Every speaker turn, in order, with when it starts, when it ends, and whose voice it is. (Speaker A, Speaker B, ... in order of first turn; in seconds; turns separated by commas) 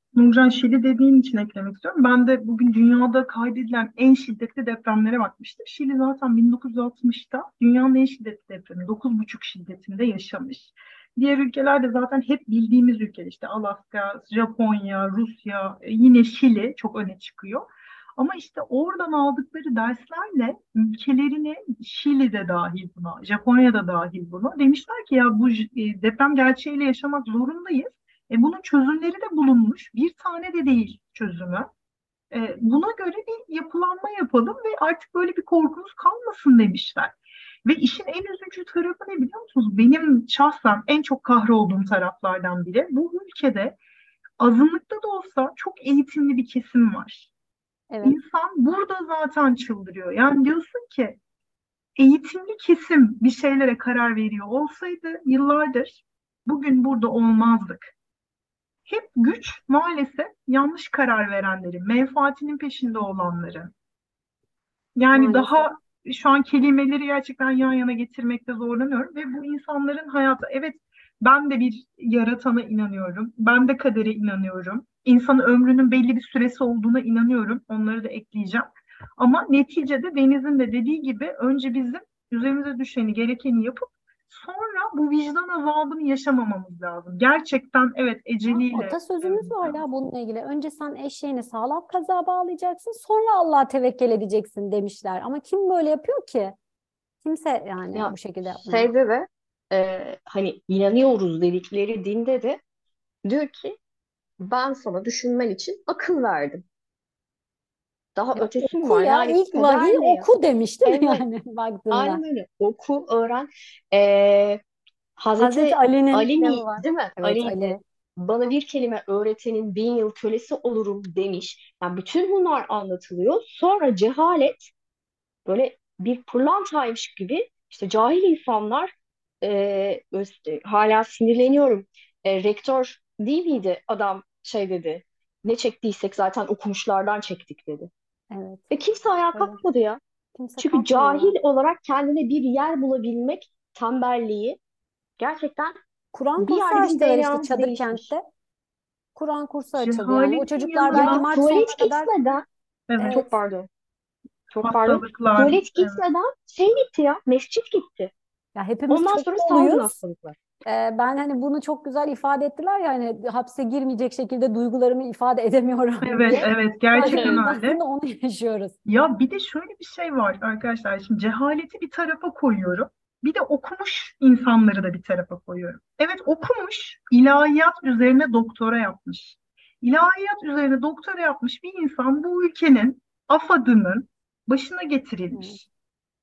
Speaker A: 0.1-31.7, Speaker A: 32.3-43.8, Speaker A: 44.4-47.3, Speaker B: 47.9-48.2, Speaker A: 48.0-51.2, Speaker A: 52.0-57.9, Speaker A: 58.9-63.7, Speaker A: 65.0-89.8, Speaker B: 65.1-65.7, Speaker B: 88.5-96.5, Speaker B: 97.2-98.9, Speaker C: 97.9-102.6, Speaker C: 103.2-103.8, Speaker C: 104.4-106.6, Speaker C: 108.2-110.3, Speaker B: 108.3-112.2, Speaker C: 110.8-111.2, Speaker C: 111.9-114.6, Speaker C: 115.2-124.7, Speaker B: 115.4-117.8, Speaker C: 125.5-137.9, Speaker B: 138.3-138.7, Speaker C: 138.7-140.0, Speaker B: 139.3-139.6, Speaker B: 140.3-141.3, Speaker C: 140.6-144.6, Speaker C: 145.2-145.7, Speaker B: 146.1-148.2, Speaker C: 146.4-148.1, Speaker B: 149.2-152.1, Speaker A: 149.7-151.3, Speaker C: 150.9-152.4, Speaker A: 152.9-153.2, Speaker B: 153.0-153.3, Speaker C: 153.1-153.7, Speaker C: 154.5-158.1, Speaker A: 154.6-156.0, Speaker B: 158.5-159.9, Speaker C: 158.9-160.4, Speaker B: 160.6-168.8, Speaker A: 166.0-167.8, Speaker C: 167.0-167.4, Speaker A: 168.8-185.6, Speaker B: 185.3-185.6